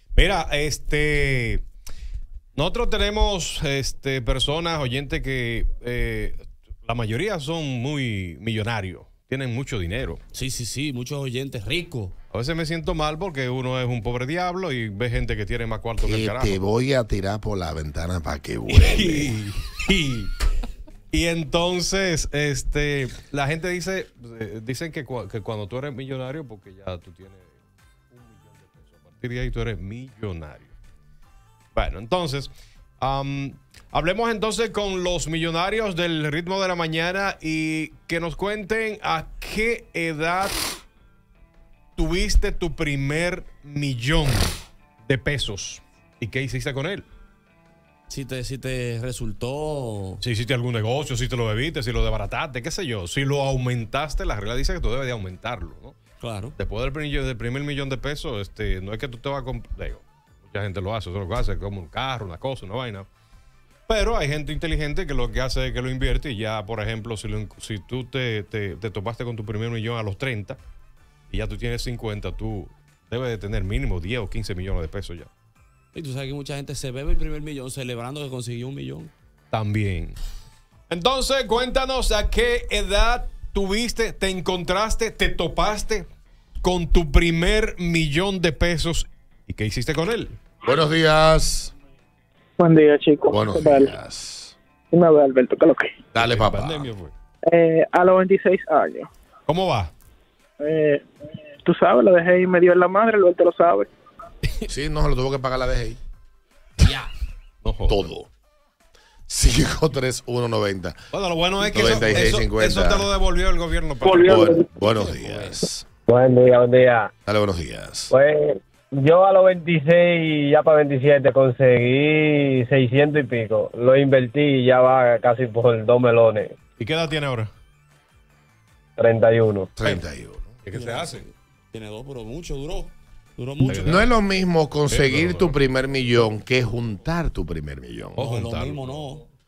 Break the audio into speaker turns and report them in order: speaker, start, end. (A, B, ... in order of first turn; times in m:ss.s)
0:00.1-0:01.6 A
0:02.5-0:10.2 A
0:10.3-0:12.1 B
0:12.3-0:16.6 A
0:16.0-0:19.4 C
0:18.7-0:20.3 A
0:21.1-0:27.5 A
0:28.1-0:30.7 A
0:31.7-0:40.6 A
0:42.0-0:47.0 A
0:48.1-0:50.2 B
0:50.2-0:56.0 A
0:56.2-0:56.6 B
0:56.6-1:03.1 A
1:03.9-1:10.6 A
1:11.3-1:15.3 A
1:15.9-1:19.1 B
1:19.5-1:20.2 A
1:20.9-1:26.1 A
1:26.6-1:30.4 A
1:30.6-1:31.7 C
1:32.6-1:33.9 D
1:33.3-1:34.5 C
1:34.9-1:35.9 D
1:36.1-1:36.9 C
1:36.2-1:37.1 A
1:37.5-1:39.1 D
1:39.5-1:39.9 A
1:40.6-1:41.0 D
1:41.6-1:43.9 D
1:44.7-1:46.0 C
1:46.8-1:47.1 B
1:47.6-1:48.1 A
1:47.9-1:48.3 C
1:49.3-1:51.0 C
1:51.1-1:54.5 A
1:51.6-1:53.1 C
1:54.1-1:55.8 C
1:54.8-1:55.6 B
1:56.1-1:57.1 E
1:57.2-1:58.1 C
1:58.1-2:06.5 E
2:06.8-2:07.5 A
2:09.0-2:09.7 E
2:09.8-2:10.5 C
2:10.6-2:11.2 A
2:10.7-2:14.0 B
2:13.6-2:14.1 A
2:13.8-2:18.2 C
2:14.9-2:15.6 A
2:18.2-2:19.1 A
2:18.2-2:19.2 B